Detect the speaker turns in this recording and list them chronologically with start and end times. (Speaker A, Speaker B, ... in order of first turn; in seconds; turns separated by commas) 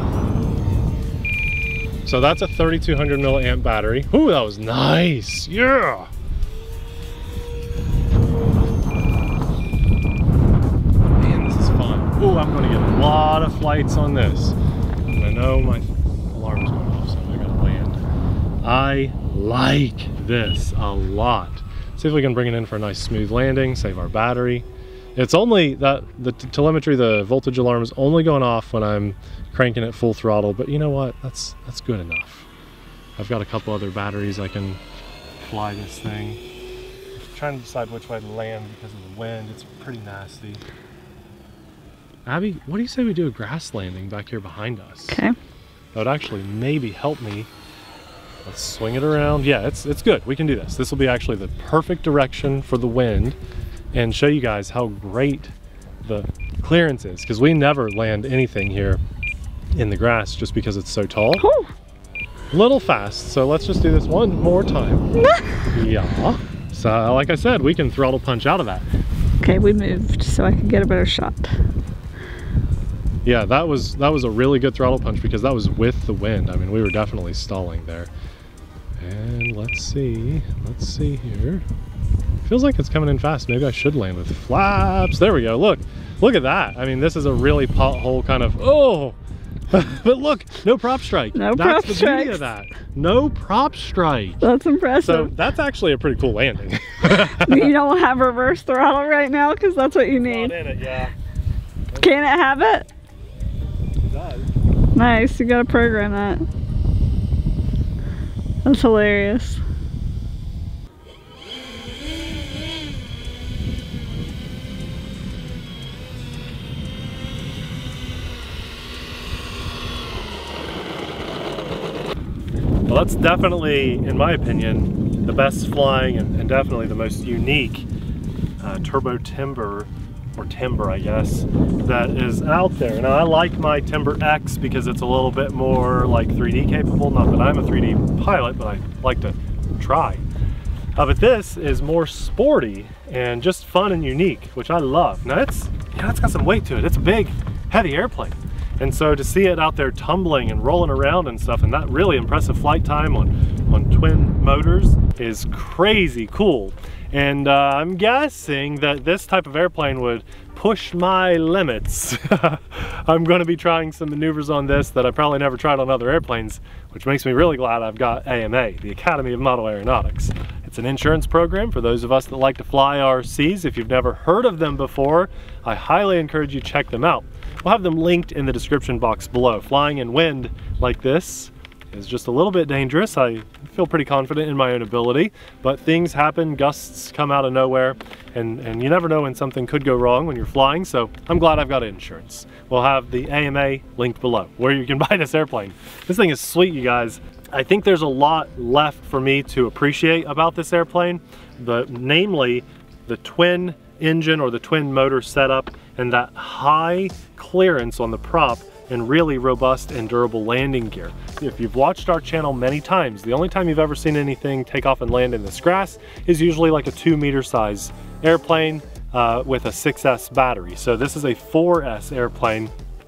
Speaker A: 2.0-6.1, Speaker A: 11.1-14.6, Speaker A: 15.1-18.0, Speaker A: 18.6-32.5, Speaker A: 33.2-34.8, Speaker A: 35.4-36.4, Speaker A: 37.2-40.6, Speaker A: 42.2-45.2, Speaker B: 45.1-45.3, Speaker A: 45.9-47.5, Speaker A: 48.4-53.4, Speaker A: 53.9-59.0, Speaker A: 59.7-61.5, Speaker B: 61.4-61.7, Speaker A: 62.5-65.1, Speaker A: 65.7-68.9, Speaker B: 69.4-71.5, Speaker A: 73.2-78.1, Speaker A: 79.0-81.6, Speaker A: 82.4-89.2, Speaker A: 89.7-94.4, Speaker B: 91.3-92.5, Speaker B: 94.4-95.3, Speaker A: 95.0-97.7, Speaker B: 97.2-100.5, Speaker A: 100.1-101.1, Speaker B: 102.0-102.9, Speaker A: 104.0-104.5, Speaker B: 104.9-106.4, Speaker B: 108.6-109.6, Speaker A: 122.9-127.9, Speaker A: 128.6-140.2, Speaker A: 140.9-222.7